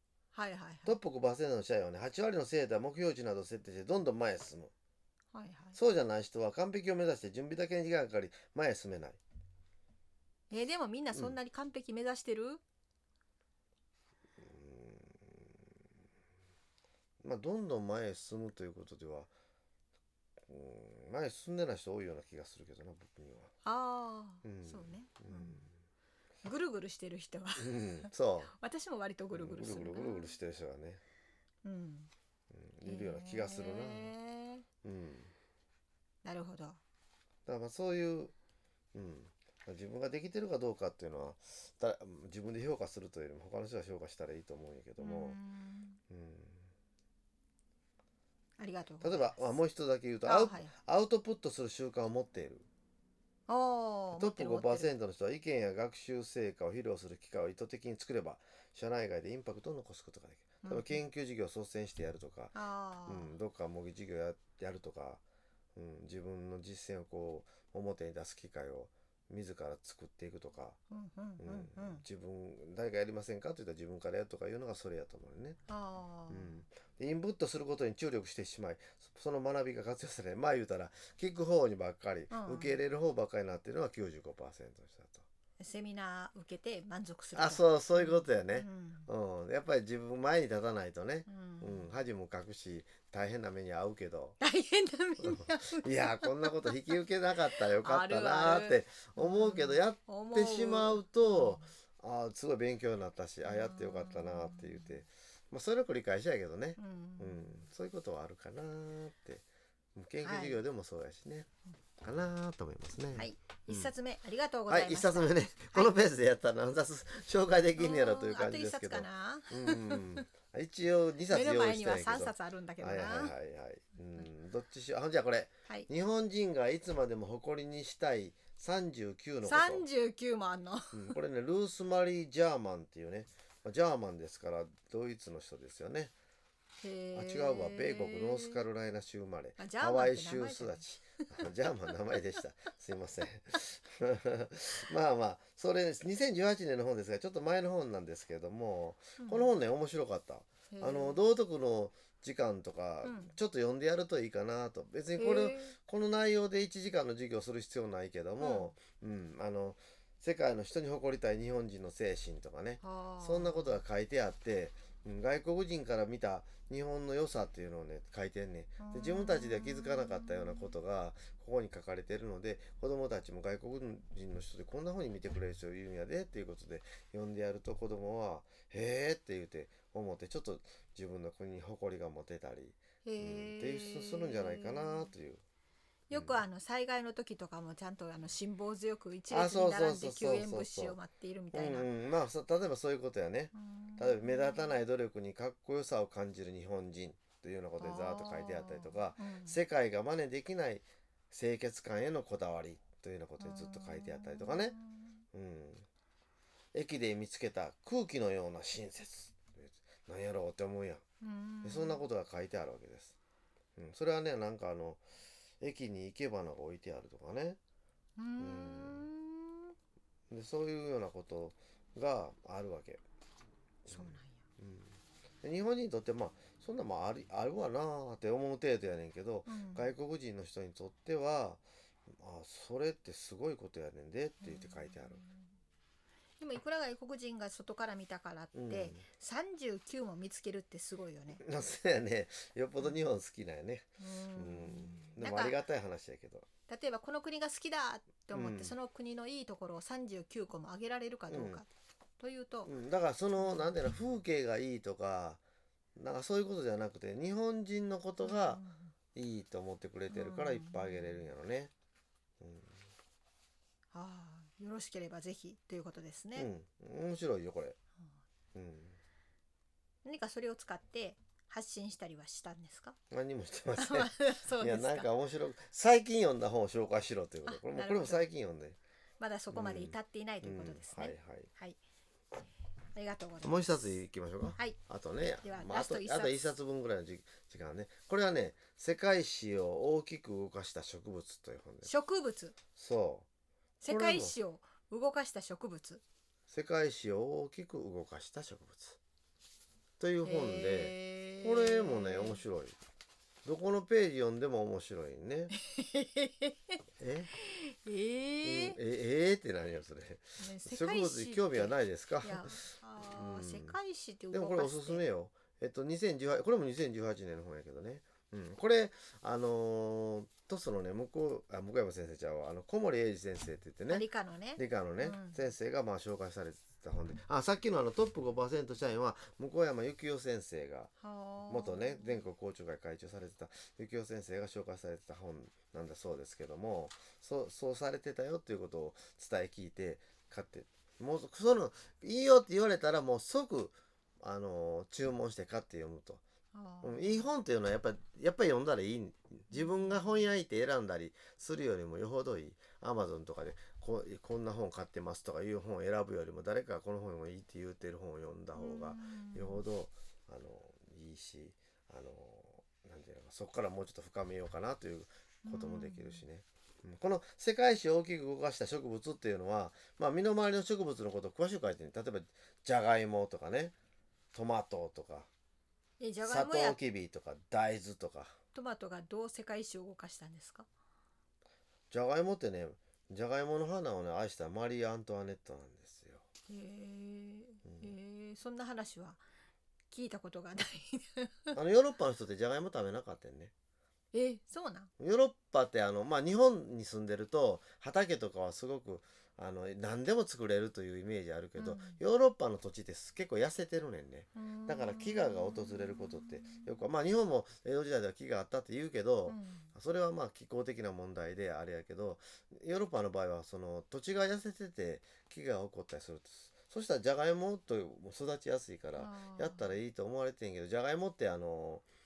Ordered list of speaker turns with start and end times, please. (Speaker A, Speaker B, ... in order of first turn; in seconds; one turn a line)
Speaker A: 0.3-1.0
Speaker B: 0.8-4.7
Speaker A: 5.3-5.8
Speaker B: 5.7-9.2
Speaker A: 10.5-12.6
Speaker B: 14.4-15.6
Speaker B: 17.2-19.3
Speaker B: 20.4-23.5
Speaker A: 23.6-25.6
Speaker B: 24.4-25.7
Speaker A: 26.4-30.4
Speaker B: 27.6-28.5
Speaker B: 29.3-31.0
Speaker A: 31.6-32.1
Speaker B: 32.5-34.1
Speaker A: 32.8-34.6
Speaker B: 34.8-35.3
Speaker A: 36.2-36.8
Speaker B: 37.5-38.3
Speaker B: 38.9-45.4
Speaker A: 45.0-46.0
Speaker B: 46.1-46.7
Speaker A: 48.6-49.4
Speaker B: 49.0-52.6
Speaker A: 50.2-50.7
Speaker A: 53.5-54.9
Speaker B: 54.1-65.2
Speaker A: 60.6-61.0
Speaker A: 62.5-63.3
Speaker B: 65.7-70.8
Speaker A: 70.9-72.0
Speaker B: 71.4-75.6
Speaker A: 75.7-76.6
Speaker B: 76.3-85.2
Speaker A: 82.3-82.8
Speaker A: 85.6-89.1
Speaker B: 87.3-94.4
Speaker A: 91.2-91.9
Speaker A: 94.4-97.0
Speaker B: 95.2-109.4
Speaker A: 97.6-101.7
Speaker A: 103.4-105.0
Speaker A: 106.8-107.7
Speaker B: 109.9-111.5
Speaker A: 110.2-110.6
Speaker B: 112.0-113.9
Speaker A: 113.1-115.9
Speaker B: 114.7-129.8
Speaker A: 117.8-120.2
Speaker A: 121.3-123.3
Speaker A: 129.4-131.1
Speaker B: 130.9-136.1
Speaker A: 136.8-138.6
Speaker B: 137.1-185.4
Speaker A: 139.6-141.4
Speaker A: 149.2-149.5
Speaker A: 150.7-151.2
Speaker A: 153.0-153.3
Speaker A: 155.1-155.8
Speaker A: 158.4-158.7
Speaker A: 162.8-163.7
Speaker A: 168.8-170.7
Speaker A: 183.0-185.1
Speaker A: 186.1-191.9
Speaker B: 186.1-186.4
Speaker B: 189.3-191.0
Speaker B: 191.5-204.7
Speaker A: 193.5-194.8
Speaker A: 197.8-199.6
Speaker A: 203.4-205.1
Speaker B: 205.3-205.8
Speaker B: 206.7-211.0
Speaker A: 211.2-212.1
Speaker B: 211.6-213.2
Speaker B: 213.8-215.0
Speaker B: 215.6-217.6
Speaker A: 218.2-219.7
Speaker B: 218.4-219.1
Speaker B: 220.3-223.0
Speaker B: 223.8-235.2
Speaker A: 223.9-224.4
Speaker A: 229.5-229.9
Speaker A: 234.4-235.5
Speaker A: 236.4-241.4
Speaker B: 238.5-239.0
Speaker B: 241.4-246.5
Speaker A: 244.0-245.6
Speaker A: 246.7-251.7
Speaker B: 248.3-248.8
Speaker B: 251.3-251.6
Speaker A: 252.2-252.7
Speaker B: 252.6-255.4
Speaker A: 253.4-253.7
Speaker B: 255.9-258.6
Speaker A: 258.2-258.9
Speaker B: 259.1-261.7
Speaker A: 260.1-261.3
Speaker B: 262.4-262.8
Speaker A: 263.9-266.5
Speaker B: 266.4-267.8
Speaker B: 268.5-269.0
Speaker A: 270.0-272.9
Speaker B: 273.1-278.8
Speaker A: 273.8-275.1
Speaker A: 277.4-278.2
Speaker A: 279.2-281.8
Speaker B: 279.5-281.5
Speaker A: 282.9-283.9
Speaker B: 283.4-291.9
Speaker A: 285.4-286.4
Speaker A: 291.8-292.6
Speaker B: 292.8-293.2
Speaker A: 293.8-296.0
Speaker B: 293.9-294.3
Speaker B: 296.5-299.0
Speaker B: 300.0-302.8
Speaker A: 300.2-302.4
Speaker B: 303.4-305.5
Speaker A: 305.7-306.7
Speaker B: 307.0-307.3
Speaker A: 307.3-308.8
Speaker B: 308.4-313.8
Speaker A: 310.4-315.0
Speaker B: 314.3-330.9
Speaker A: 323.9-325.5
Speaker A: 331.0-332.2
Speaker B: 331.5-346.2
Speaker A: 346.5-347.3
Speaker B: 346.8-373.7
Speaker A: 349.5-350.2
Speaker A: 358.6-359.6
Speaker A: 365.4-366.2
Speaker B: 374.3-375.3
Speaker A: 376.0-376.8
Speaker B: 376.2-378.4
Speaker A: 378.5-380.7
Speaker B: 381.9-386.2
Speaker A: 386.5-389.2
Speaker B: 387.6-387.9
Speaker A: 389.9-391.6
Speaker B: 391.5-393.5
Speaker A: 394.1-394.9
Speaker B: 395.0-421.9
Speaker A: 401.6-402.0
Speaker A: 404.4-406.8
Speaker A: 409.3-409.7
Speaker A: 418.9-419.7